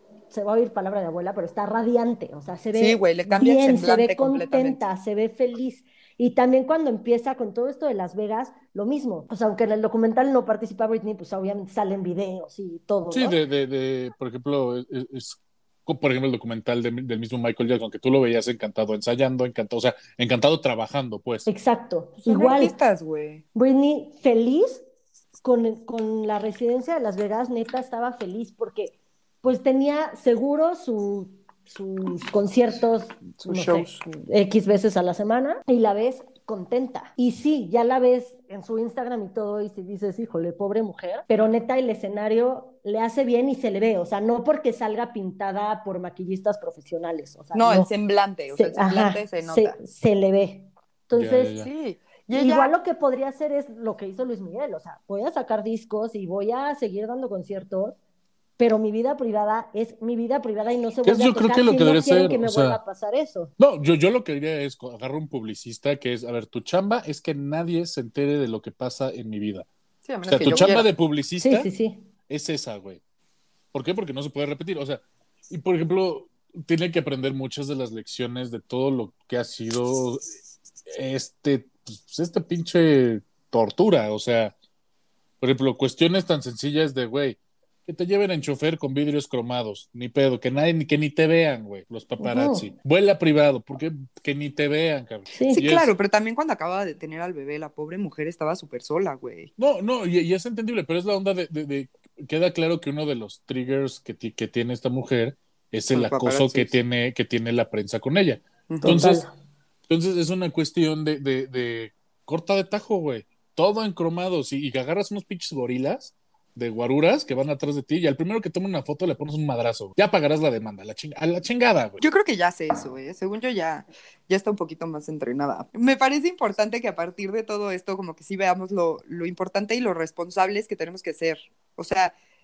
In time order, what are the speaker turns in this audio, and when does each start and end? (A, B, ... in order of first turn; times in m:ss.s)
0:00.3-0:13.4 A
0:02.7-0:04.8 B
0:13.1-0:21.5 C
0:21.5-0:22.7 A
0:22.2-0:23.4 B
0:23.5-0:24.8 A
0:25.4-0:47.9 A
0:33.4-0:34.0 B
0:47.5-0:49.8 B
0:48.5-0:51.6 A
0:51.1-0:51.7 C
0:51.6-0:52.7 B
0:52.3-0:58.0 A
0:58.6-1:03.5 A
1:01.0-1:02.8 C
1:03.6-1:09.7 C
1:10.0-1:10.9 B
1:10.2-1:11.7 C
1:11.4-1:12.0 A
1:12.3-1:13.0 C
1:13.7-1:20.2 C
1:20.9-1:24.5 C
1:25.4-1:35.9 C
1:32.2-1:32.7 A
1:35.3-1:35.6 A
1:35.5-1:39.5 B
1:39.6-1:49.2 C
1:45.9-1:46.7 B
1:48.7-1:49.0 B
1:48.8-1:49.3 A
1:49.9-2:02.0 C
2:02.0-2:12.1 B